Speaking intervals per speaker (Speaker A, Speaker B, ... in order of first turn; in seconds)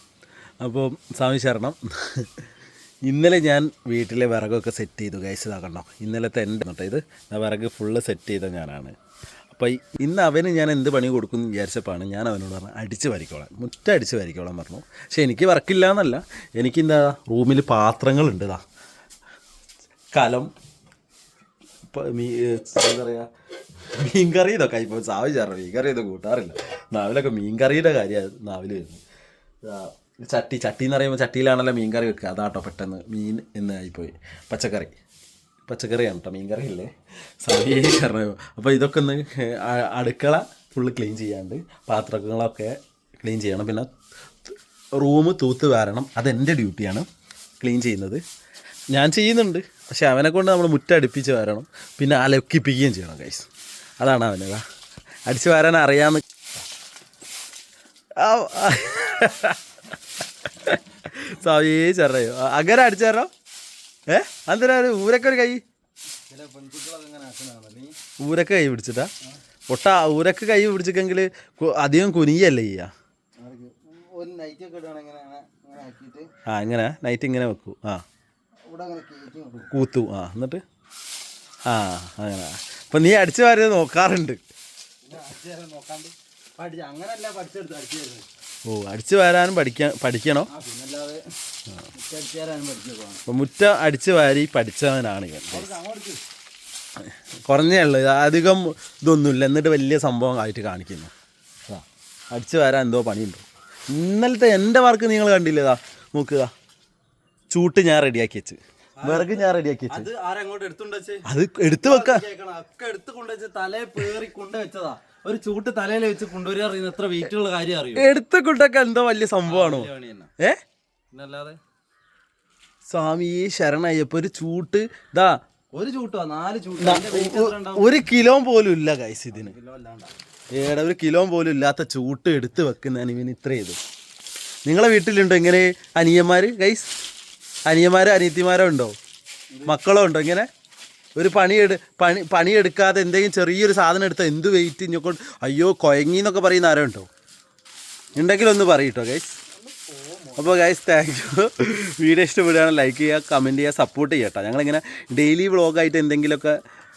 Speaker A: 0.6-2.4, 3.0-8.9, 9.5-18.6, 20.1-20.5, 21.9-23.3, 23.9-29.0, 29.6-35.0, 35.6-36.9, 37.4-43.9, 44.5-47.1, 47.6-48.2, 48.9-53.5, 54.0-54.6, 55.3-56.2, 58.2-59.6, 60.4-63.3, 64.1-65.6, 68.2-69.1, 69.7-72.9, 76.5-78.0, 79.7-80.6, 81.7-84.4, 88.7-90.5, 93.3-95.8, 97.1-101.1, 101.7-106.5, 107.5-110.1, 111.3-112.2, 117.9-120.6, 122.9-125.3, 126.8-129.5, 130.5-133.8, 134.7-136.9, 137.7-138.9, 139.7-140.5, 141.2-147.1, 148.1-149.4, 150.4-156.6
Speaker B: 66.3-68.0, 73.4-76.3, 78.7-79.8, 85.0-88.3, 90.5-91.2, 91.9-93.2, 95.5-96.2, 109.0-118.0, 119.4-120.3, 121.1-121.6, 125.7-127.9, 129.3-130.1, 139.5-139.8, 149.5-150.6